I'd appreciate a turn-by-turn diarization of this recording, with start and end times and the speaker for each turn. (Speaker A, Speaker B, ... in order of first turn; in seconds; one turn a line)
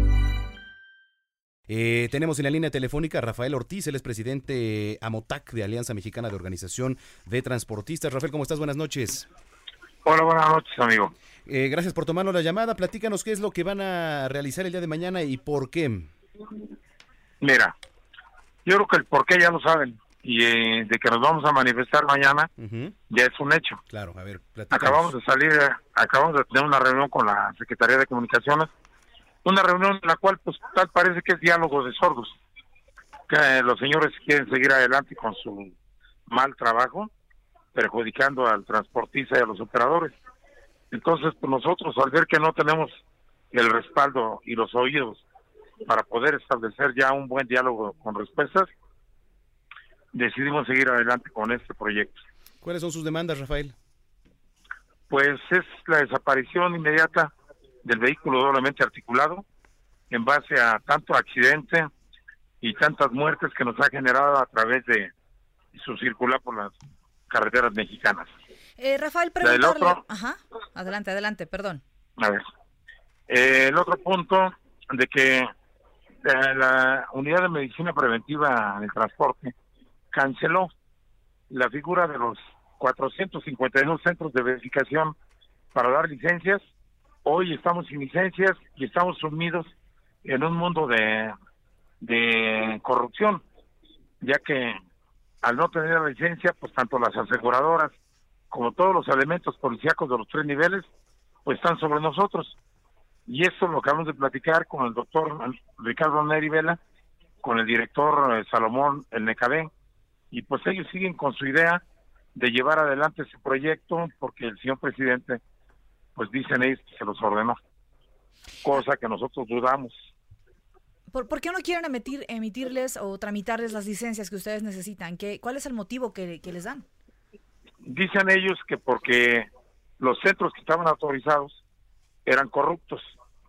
Speaker A: 1.7-9.3
Speaker B: 10.0-11.1
Speaker A: 11.4-16.1
Speaker B: 17.4-17.7
Speaker B: 18.6-22.5
Speaker A: 22.6-22.9
Speaker B: 23.1-23.8
Speaker A: 23.9-25.1
Speaker B: 24.7-28.7
Speaker B: 29.4-32.4
Speaker B: 33.3-35.7
Speaker B: 36.3-37.1
Speaker B: 37.7-40.1
Speaker B: 40.9-43.0
Speaker B: 43.5-45.2
Speaker B: 45.8-48.7
Speaker B: 50.1-52.2
Speaker A: 52.6-53.7
Speaker B: 55.1-57.3
Speaker B: 57.8-59.4
Speaker B: 60.1-61.9
Speaker B: 62.6-65.1
Speaker B: 65.7-66.7
Speaker B: 67.3-68.3
Speaker C: 68.8-71.8
Speaker B: 69.4-70.0
Speaker B: 72.2-72.4
Speaker B: 73.3-75.5
Speaker B: 76.2-79.5
Speaker B: 80.1-80.7
Speaker B: 81.5-85.1
Speaker B: 85.7-86.6
Speaker B: 87.2-91.3
Speaker B: 92.0-93.4
Speaker B: 94.2-94.8
Speaker B: 95.4-97.9
Speaker B: 98.5-100.9
Speaker B: 101.4-102.6
Speaker B: 103.3-106.8
Speaker B: 107.4-109.7
Speaker B: 110.3-111.8
Speaker B: 112.3-115.4
Speaker B: 116.2-117.6
Speaker B: 118.6-120.0
Speaker C: 121.1-126.8
Speaker B: 127.8-131.6
Speaker B: 132.2-133.1